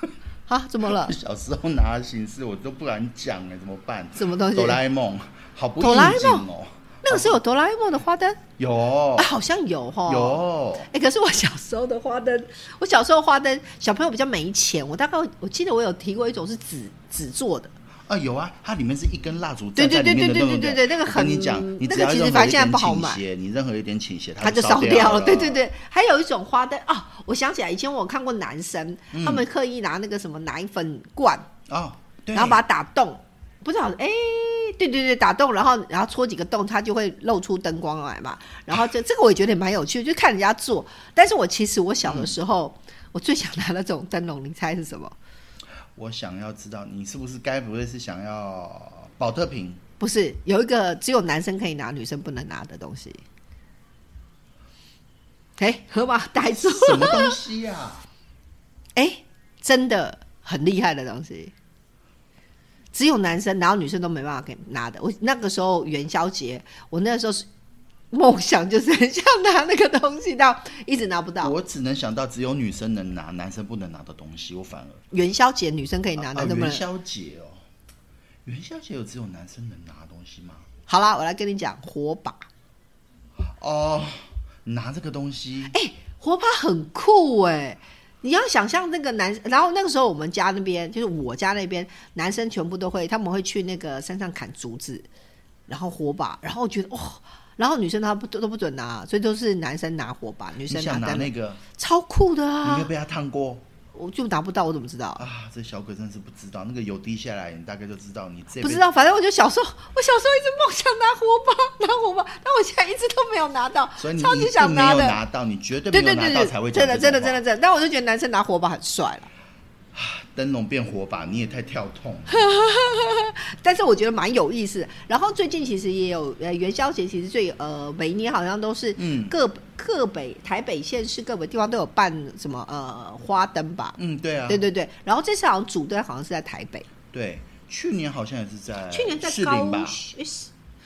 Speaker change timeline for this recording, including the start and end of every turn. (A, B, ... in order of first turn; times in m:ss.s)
0:00.5-0:01.2 A
0:00.9-0:07.4 B
0:04.2-0:04.8 A
0:05.8-0:06.4 A
0:07.0-0:08.4 A
0:08.6-0:09.3 B
0:09.2-0:17.7 A
0:10.1-0:10.9 B
0:18.1-0:25.6 B
0:19.8-0:23.2 A
0:24.4-0:31.5 A
0:29.1-0:29.4 B
0:31.7-0:32.6 B
0:32.3-0:45.2 A
0:42.0-0:42.3 B
0:45.9-0:49.8 B
0:50.0-0:53.2 A
0:55.6-0:57.4 A
0:56.4-0:58.0 B
0:59.0-1:01.5 A
1:02.9-1:07.5 A
1:08.1-1:11.5 A
1:11.4-1:15.0 B
1:15.1-1:16.8 A
1:16.2-1:17.6 B
1:18.4-1:20.6 B
1:20.9-1:22.5 A
1:23.6-1:25.7 B
1:25.7-1:35.1 A
1:35.7-1:42.9 A
1:40.7-1:41.6 B
1:42.6-1:43.6 B
1:43.9-1:45.2 A
1:45.2-1:48.8 B
1:48.6-1:55.2 A
1:54.0-1:57.4 B
1:55.9-1:59.3 A
1:59.9-2:02.4 B
2:02.3-2:16.9 A
2:09.0-2:09.3 B
2:14.0-2:14.6 B
2:17.1-2:20.0 B
2:18.9-2:20.5 A